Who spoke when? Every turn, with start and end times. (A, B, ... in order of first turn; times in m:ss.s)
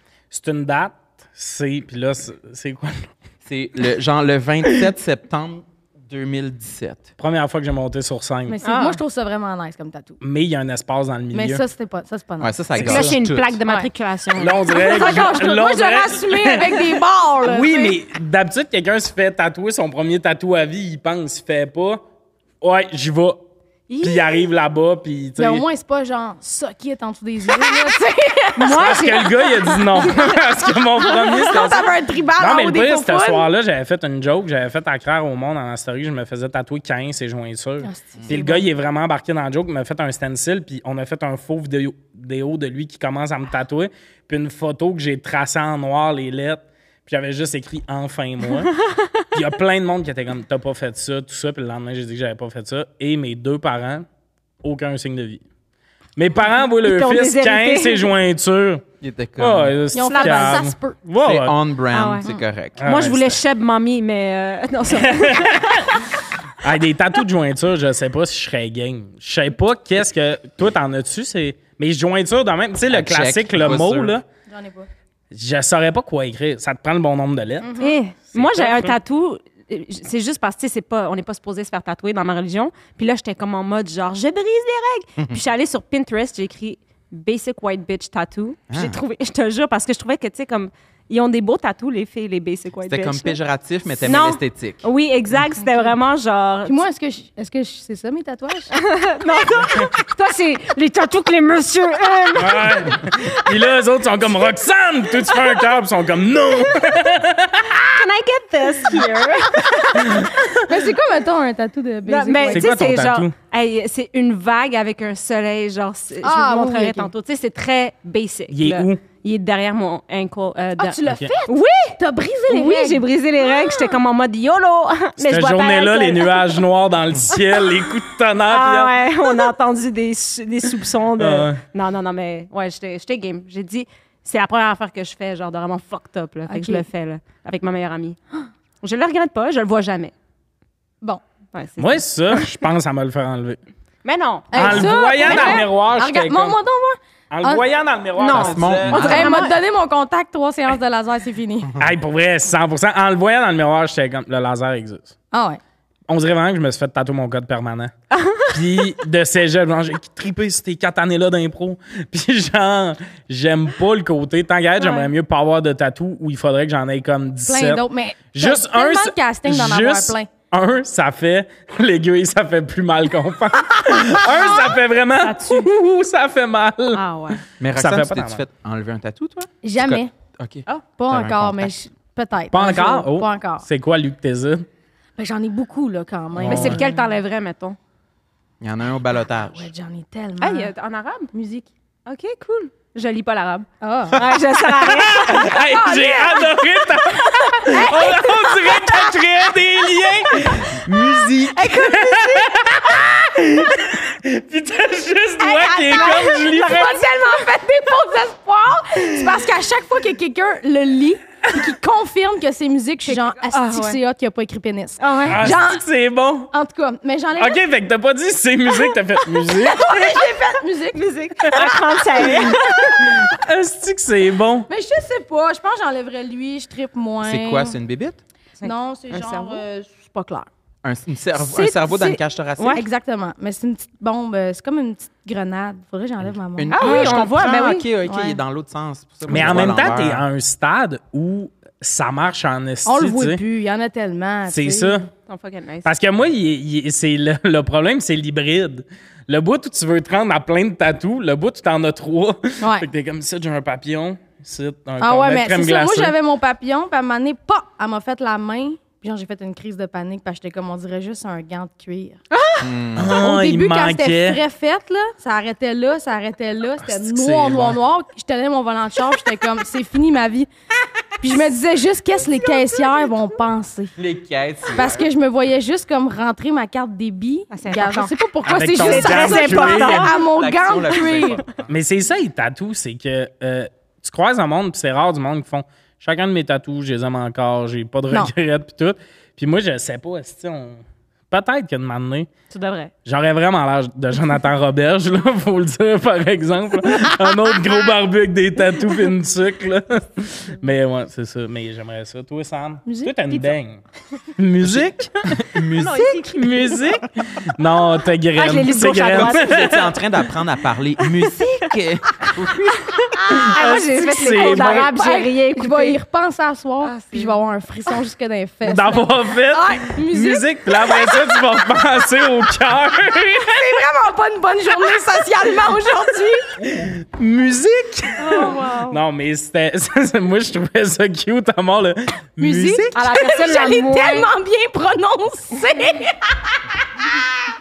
0:00.3-0:03.1 A
0:03.4-0:07.1 B
0:07.2-0:08.6 A
0:08.5-0:10.2 C
0:08.6-0:09.0 D
0:10.2-0:11.6 A
0:11.3-0:12.6 C
0:12.4-0:13.6 B
0:12.8-0:13.2 A
0:12.8-0:15.8 D
0:14.4-0:22.0 A
0:14.7-0:18.0 C
0:22.6-0:23.4 A
0:23.9-0:24.4 D
0:24.0-0:25.6 A
0:25.4-0:30.4 C
0:28.6-0:29.3 D
0:28.7-0:48.7 A
0:30.0-0:30.3 D
0:31.0-0:33.5 C
0:31.6-0:31.8 B
0:37.8-0:38.7 C
0:49.3-0:54.1 A
0:54.6-0:55.4 A
0:56.2-0:58.8 A
0:56.8-0:58.1 D
0:59.0-0:59.8 B
0:59.4-1:01.6 A
0:59.9-1:01.0 C
1:00.1-1:00.6 D
1:01.2-1:03.0 B
1:01.9-1:02.3 D
1:02.8-1:03.4 A
1:02.8-1:06.0 D
1:05.0-1:06.0 A
1:06.6-1:14.3 A
1:12.9-1:14.2 B
1:14.5-1:14.9 C
1:15.3-1:17.7 A
1:17.6-1:18.0 C
1:17.8-1:33.4 D
1:18.3-1:19.0 A
1:25.2-1:25.4 B
1:28.7-1:29.0 B
1:32.9-1:34.8 B
1:34.0-1:36.8 D
1:35.6-1:35.9 C
1:36.7-1:38.7 C
1:38.7-1:43.1 D
1:42.4-1:48.0 A
1:47.7-1:50.3 D
1:49.8-1:50.7 A
1:50.6-1:52.8 C
1:52.1-2:02.0 D
1:52.5-1:53.3 A
1:56.2-1:57.1 C
1:58.5-1:59.0 A
2:00.8-2:04.0 C
2:01.1-2:01.3 A
2:02.5-2:06.6 D
2:05.2-2:09.0 A
2:08.5-2:18.2 D
2:11.2-2:11.6 A
2:16.5-2:16.8 C
2:18.8-2:20.1 D
2:21.5-2:22.5 D
2:21.8-2:23.6 A
2:24.0-2:25.7 D
2:24.5-2:27.6 C
2:24.5-2:26.6 A
2:27.3-2:29.3 A
2:28.2-2:29.6 D
2:28.3-2:29.4 B
2:29.0-2:31.7 C
2:31.8-2:35.1 A
2:35.3-2:35.6 C
2:36.1-2:37.9 A
2:38.2-2:38.4 D
2:38.4-2:47.8 A
2:47.5-2:50.3 C
2:48.3-2:57.0 A
2:54.2-2:54.6 C
2:55.2-2:55.7 D
2:56.9-2:57.4 D
2:57.6-3:01.7 B
2:57.7-2:58.4 A
2:59.6-3:00.1 C
3:01.0-3:03.7 C
3:02.5-3:04.7 A
3:05.2-3:07.0 C
3:06.4-3:06.8 A
3:06.4-3:07.8 D
3:08.6-3:09.7 B
3:09.4-3:10.7 C
3:10.4-3:11.3 D
3:11.3-3:11.7 C
3:12.1-3:15.5 D
3:13.8-3:14.2 C
3:14.8-3:20.8 A
3:15.2-3:16.7 C
3:17.6-3:19.1 C
3:20.7-3:21.8 B
3:21.6-3:22.5 D
3:21.7-3:27.0 A
3:21.9-3:22.2 C
3:25.4-3:35.8 C
3:25.9-3:26.9 D
3:33.1-3:34.0 D
3:35.0-3:35.4 D
3:35.3-3:36.5 A
3:36.5-3:37.6 C
3:37.4-3:39.9 A
3:39.4-3:42.7 C
3:40.9-3:43.1 D
3:41.5-3:44.7 A
3:44.7-3:47.8 C
3:47.2-3:48.2 B
3:48.6-3:49.6 D
3:48.6-3:50.5 C
3:50.8-3:52.8 B
3:51.5-3:52.8 D
3:52.7-3:57.2 C
3:56.6-4:00.2 B
3:56.7-3:57.9 D
3:58.0-3:58.4 C
3:59.3-4:03.4 A
4:02.8-4:05.0 C
4:04.5-4:05.1 A
4:05.3-4:05.9 D
4:05.8-4:16.2 A
4:12.6-4:12.9 C
4:15.0-4:22.2 C
4:22.3-4:22.7 D
4:22.6-4:23.2 B
4:23.0-4:24.4 A
4:23.2-4:30.5 C
4:26.8-4:27.8 A
4:31.2-4:33.9 C
4:34.0-4:35.1 B
4:34.7-4:41.4 C
4:37.5-4:38.1 D
4:38.4-4:40.1 A
4:38.6-4:40.3 D
4:40.2-4:41.7 B
4:40.9-4:41.3 D
4:41.7-4:52.3 A
4:52.5-4:52.9 D
4:53.0-5:03.8 A
5:02.9-5:03.5 C
5:04.4-5:05.5 A
5:04.6-5:06.3 B
5:05.8-5:06.8 D
5:06.4-5:09.9 A
5:08.4-5:09.8 D
5:09.1-5:13.0 B
5:11.1-5:11.5 D
5:12.8-5:16.0 D
5:13.3-5:14.9 A
5:13.6-5:21.5 C
5:16.8-5:17.4 D
5:18.6-5:23.8 A
5:23.4-5:26.6 C
5:26.6-5:32.9 A
5:28.2-5:29.0 D
5:28.3-5:28.8 C
5:32.4-5:37.2 C
5:33.0-5:34.3 D